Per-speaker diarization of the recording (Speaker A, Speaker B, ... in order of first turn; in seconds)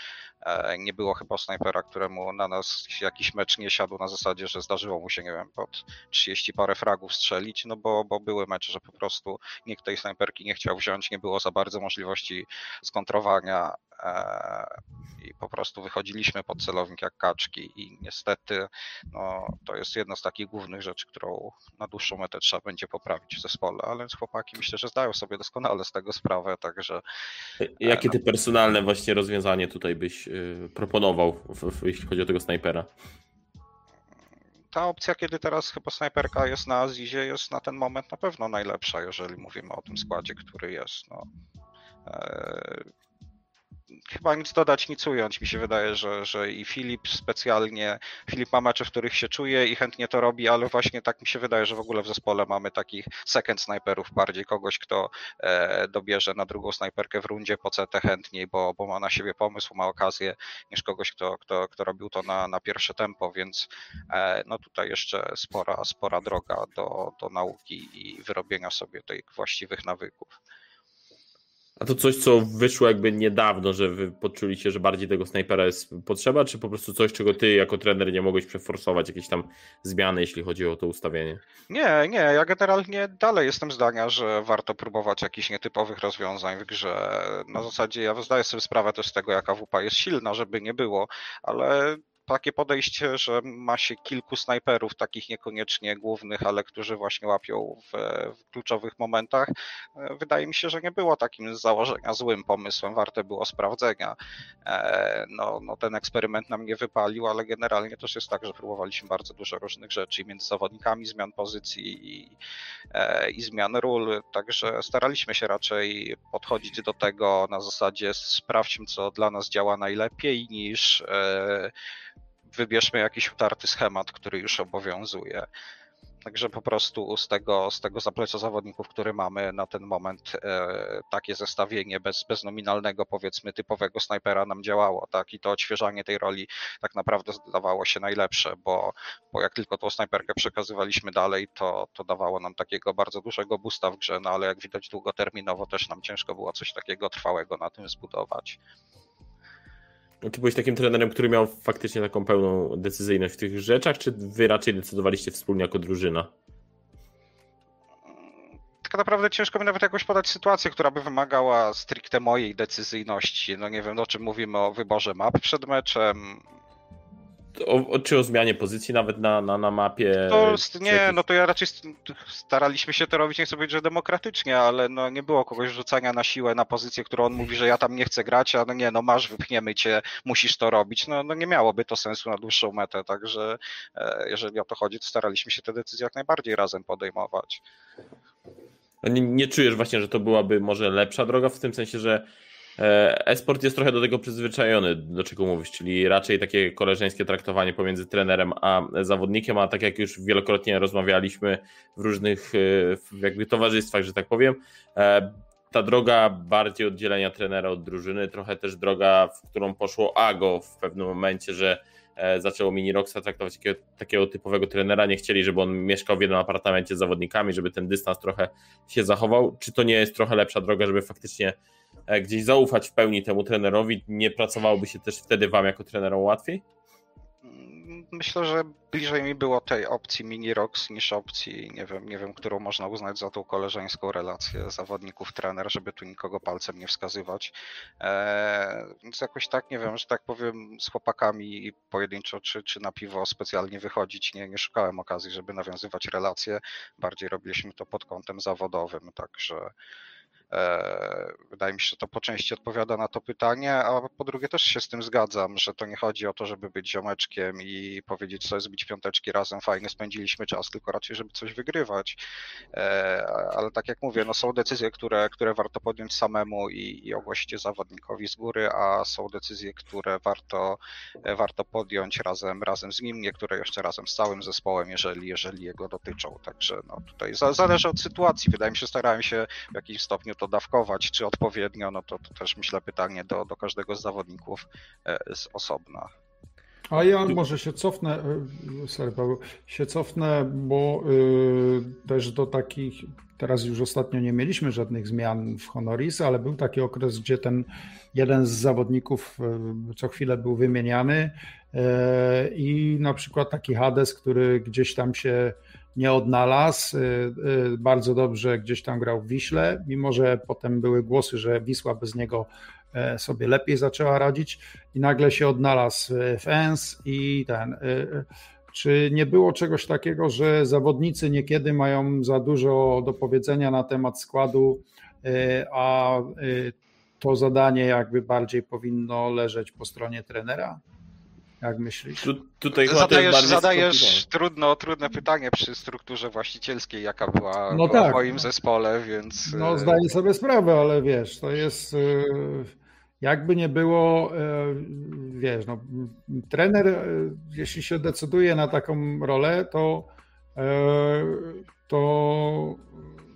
Speaker A: 0.4-27.0, 27.8-28.1, 34.7-41.2, 42.0-42.9, 44.1-70.4, 81.7-112.3, 112.9-121.7, 122.5-125.5, 126.2-148.6, 158.8-166.4, 170.3-187.6, 227.4-249.7, 250.5-262.2, 262.7-286.1, 332.8-340.0
Speaker B: 27.6-32.9, 71.8-81.4, 150.2-156.3, 167.6-171.2, 189.0-192.2, 192.8-221.6, 222.1-226.6, 332.2-334.2
Speaker C: 286.9-330.8, 331.6-332.3, 337.7-338.4, 339.4-353.1